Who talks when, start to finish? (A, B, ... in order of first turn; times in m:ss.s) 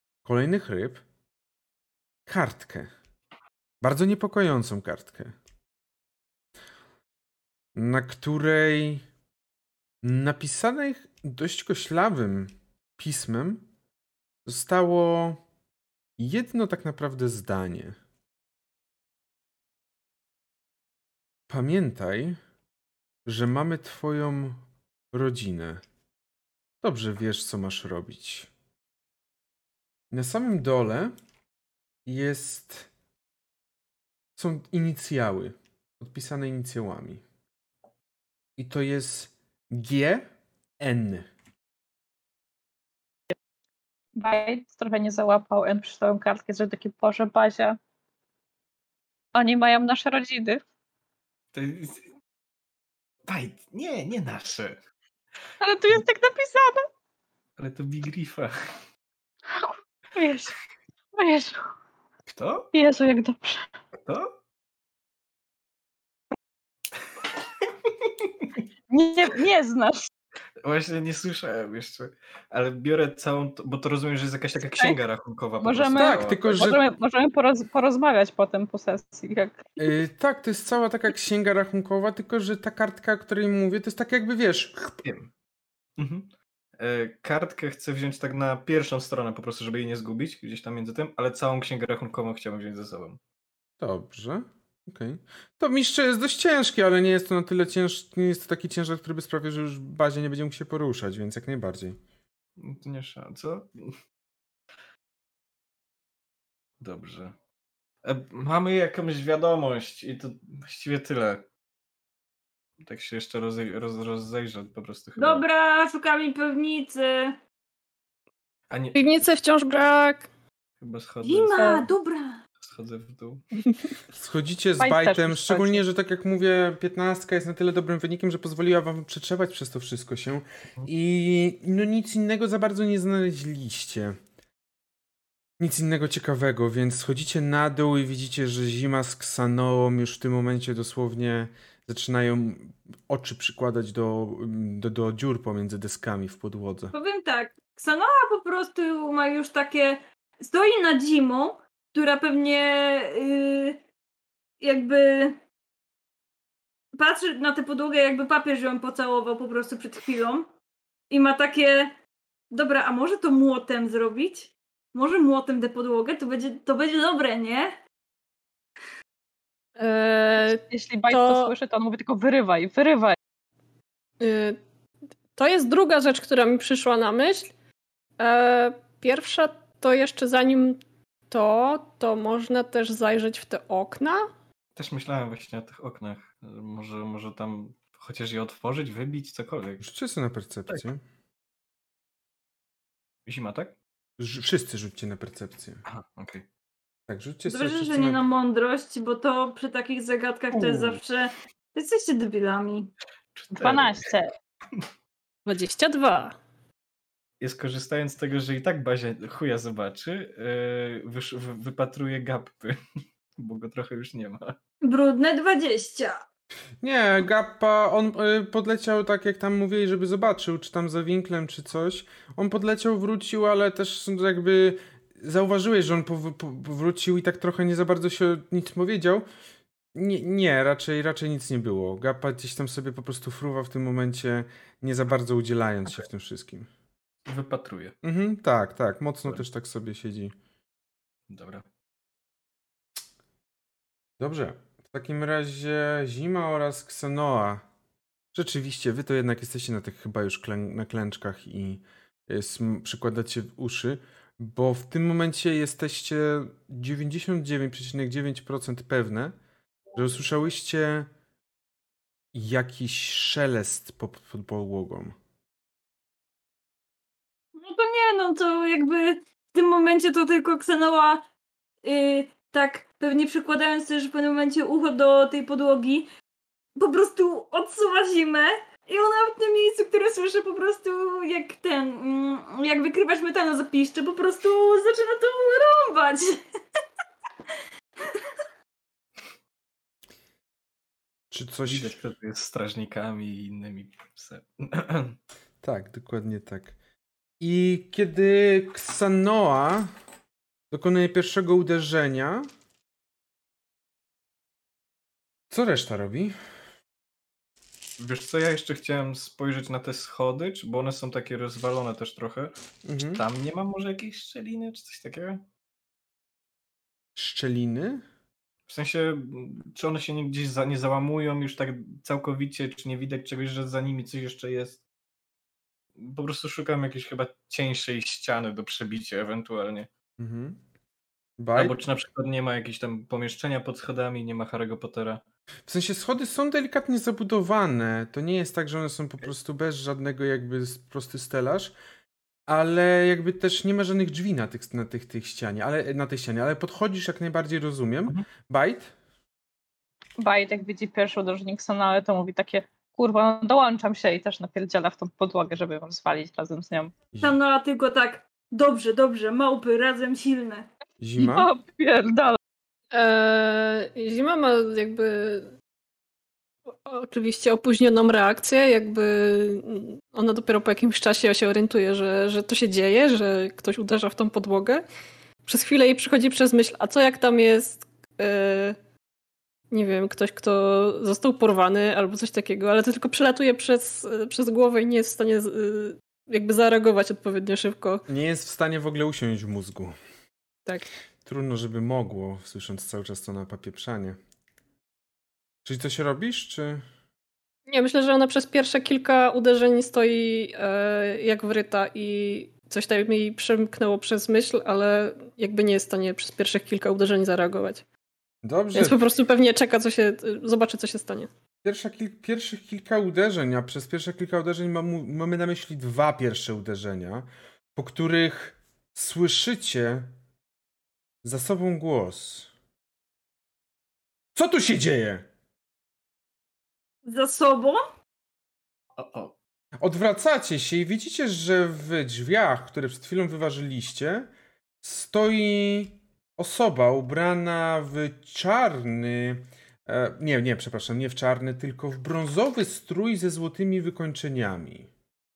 0:00.2-0:01.0 A
0:02.3-0:02.9 A
0:03.8-0:05.3 A
0:07.8-0:09.0 A
0:10.0-0:13.6 A
0:14.4-0:15.4 A
0:16.2-0:18.0 A
0:21.5-0:22.4 A
0:23.2-0:25.8 A
0:26.8-0:28.5 A
0:30.1-0:31.1 A
0:32.0-0:32.9 A
0:34.4-0:37.2 A
0:38.6-0:40.3 A
0:40.8-0:41.3 A
0:44.2-0:47.8 B
0:49.3-0:50.6 B
0:51.5-0:52.1 C
0:53.2-0:54.8 C
0:55.6-0:56.8 B
0:57.6-0:58.5 C
0:59.5-1:00.5 B
1:01.1-1:01.7 B
1:02.3-1:02.7 C
1:02.7-1:03.6 B
1:04.0-1:04.4 C
1:07.6-1:08.6 C
1:08.9-1:10.1 B
1:10.6-1:16.5 C
1:15.6-1:19.7 B
1:15.9-1:16.8 A
1:19.8-1:25.0 A
1:25.0-1:25.3 C
1:26.0-1:33.2 C
1:33.8-1:42.0 A
1:42.6-1:44.0 C
1:46.8-1:47.3 C
1:48.0-1:51.5 C
1:52.8-1:55.4 C
1:55.2-1:57.4 D
1:58.7-1:59.0 C
1:58.9-2:00.3 E
2:00.8-2:01.8 C
2:01.2-2:02.4 D
2:02.6-2:03.4 C
2:04.1-2:14.2 A
2:04.8-2:05.8 B
2:15.6-2:26.9 A
2:26.9-2:33.8 D
2:34.6-2:35.4 D
2:36.9-2:40.5 D
2:41.1-2:42.0 D
2:42.5-2:47.8 D
2:49.8-2:51.5 E
2:50.7-2:53.2 B
2:54.2-2:54.6 E
2:55.4-2:57.5 E
2:58.2-3:04.3 E
3:04.8-3:09.8 C
3:09.8-3:11.0 A
3:13.2-3:13.8 C
3:14.2-3:15.8 A
3:15.8-3:16.5 C
3:17.1-3:18.2 A
3:17.5-3:22.9 D
3:20.5-3:21.0 A
3:23.3-3:24.1 C
3:23.5-3:24.3 B
3:25.4-3:26.4 E
3:27.4-3:32.8 C
3:33.4-3:34.6 C
3:34.8-3:36.2 D
3:36.8-3:49.2 A
3:49.9-3:56.7 A
3:57.2-3:58.0 C
3:58.0-4:00.3 A
4:01.3-4:01.7 C
4:04.2-4:07.6 A
4:08.3-4:19.3 A
4:19.9-4:21.1 A
4:22.3-4:25.2 A
4:27.5-4:31.2 D
4:31.8-4:36.1 D
4:36.8-4:46.4 D
4:51.3-4:52.0 A
4:51.6-4:55.2 C
4:55.6-4:56.8 A
4:57.4-4:59.9 A
5:00.7-5:02.5 A
5:05.5-5:06.3 A
5:08.0-5:12.5 C
5:12.8-5:13.2 A
5:13.1-5:15.4 C
5:17.2-5:18.0 A
5:18.7-5:24.8 C
5:26.0-5:29.9 C
5:30.2-5:30.6 A
5:31.4-5:31.8 A
5:31.5-5:35.2 C
5:35.7-5:41.7 A
5:42.5-5:48.9 A
5:50.2-5:56.9 B
5:57.1-5:57.4 A
5:57.2-6:00.7 D
6:01.0-6:01.5 A
6:01.2-6:02.4 B
6:02.9-6:05.5 E
6:06.7-6:14.8 E
6:15.4-6:18.8 E
6:19.7-6:28.0 E
6:28.1-6:29.9 A
6:31.2-6:34.2 A
6:35.6-6:36.8 A
6:37.7-6:47.8 E
6:48.4-6:49.0 A
6:48.7-6:51.3 E
6:51.6-7:00.1 A
7:01.2-7:02.5 A
7:04.4-7:05.3 A
7:07.0-7:07.8 D
7:09.0-7:09.4 C
7:09.8-7:14.3 A
7:14.8-7:24.9 A